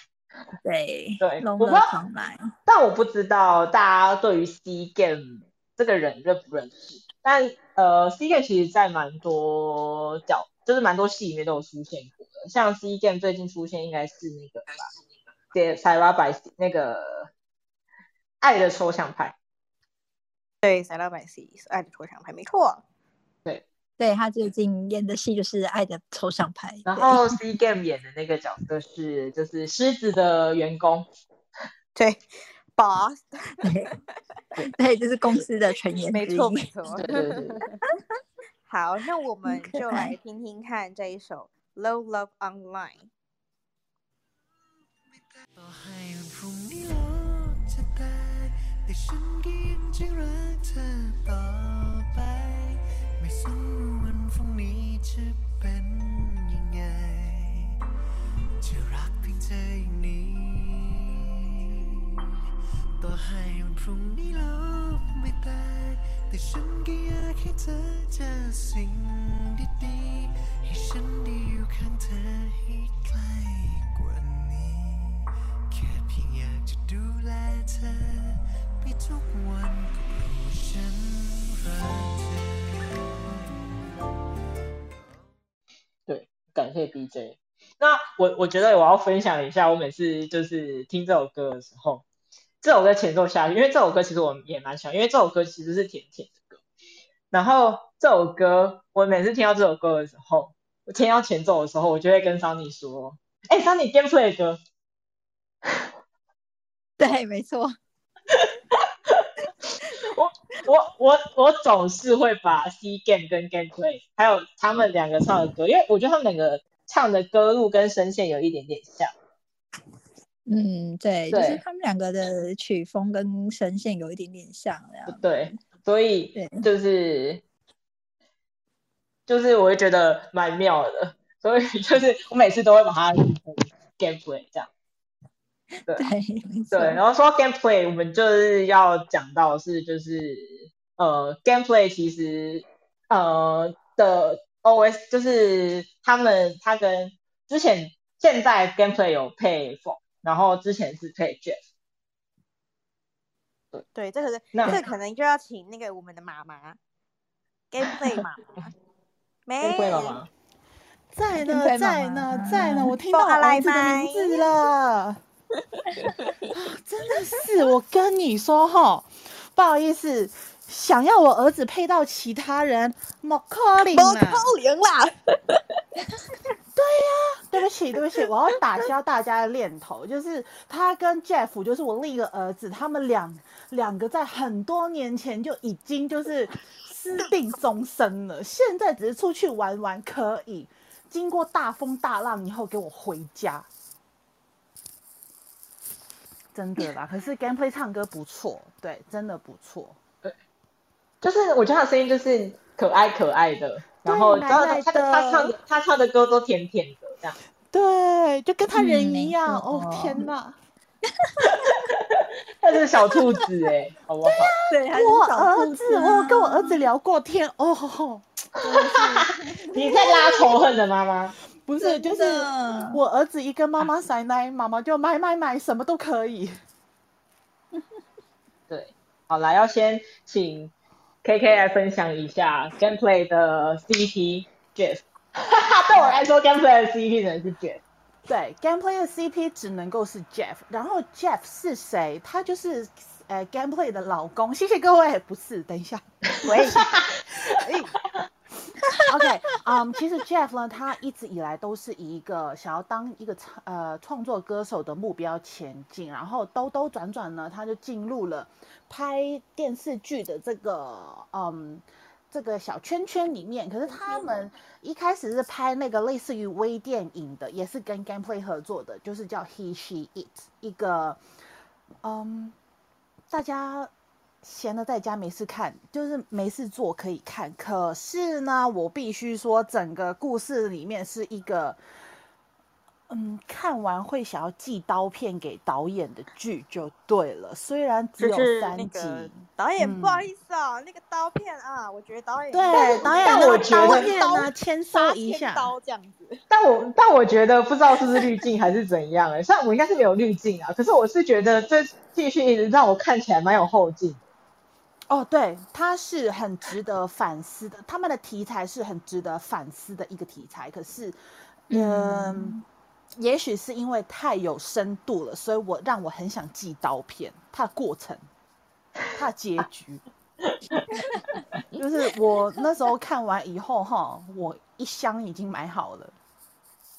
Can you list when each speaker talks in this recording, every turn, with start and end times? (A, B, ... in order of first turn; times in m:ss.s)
0:00.6-0:02.5 A
0:01.2-0:01.9 B
0:02.7-0:14.9 B
0:15.5-0:17.3 B
0:18.4-0:19.4 B
0:20.6-0:22.8 C
0:24.0-0:27.3 A
0:26.8-0:31.1 B
0:32.0-0:33.7 C
0:33.6-0:33.9 A
0:34.7-0:36.7 A
0:36.1-0:37.5 C
0:37.0-0:37.6 B
0:38.7-0:43.1 C
0:39.5-0:40.1 A
0:45.6-0:57.7 D
0:58.6-1:01.9 D
1:03.0-1:23.9 D
1:26.1-1:32.0 B
1:32.6-1:36.6 B
1:37.3-1:44.6 B
1:47.0-1:47.7 A
1:50.0-1:59.1 B
2:00.4-2:05.5 A
2:01.3-2:01.6 B
2:05.0-2:07.4 B
2:06.3-2:06.7 A
2:09.3-2:14.7 B
2:15.9-2:17.0 A
2:16.7-2:31.6 B
2:33.9-2:36.8 C
2:34.5-2:34.8 B
2:37.7-2:38.7 C
2:39.4-2:40.2 C
2:39.6-2:40.3 B
2:41.1-2:45.2 E
2:41.4-2:43.0 A
2:43.0-2:44.4 C
2:46.5-2:54.5 E
2:53.9-2:55.8 C
2:56.7-3:13.7 E
3:16.5-3:20.0 E
3:21.2-3:27.4 B
3:24.0-3:25.6 E
3:27.7-3:30.6 E
3:28.7-3:30.3 A
3:31.2-3:31.8 A
3:31.6-3:34.5 B
3:34.2-3:39.3 E
3:34.7-3:36.8 A
3:38.8-3:41.3 B
3:39.7-3:40.4 A
3:41.6-3:46.6 E
3:41.8-3:43.0 A
3:48.7-3:50.7 B
3:51.2-3:57.8 B
3:58.2-4:06.9 E
4:06.5-4:06.8 C
4:09.0-4:31.2 E
4:32.0-4:32.6 E
4:33.3-4:33.9 E
4:34.4-4:41.8 E
4:43.1-4:50.3 E
4:48.2-4:56.4 C
4:52.5-4:55.7 E
4:52.7-4:54.1 B
4:56.5-5:04.2 B
5:05.1-5:11.2 E
5:11.7-5:12.6 E
5:11.7-5:12.0 B
5:13.2-5:18.2 E
5:19.1-5:20.0 E
5:21.8-5:26.2 E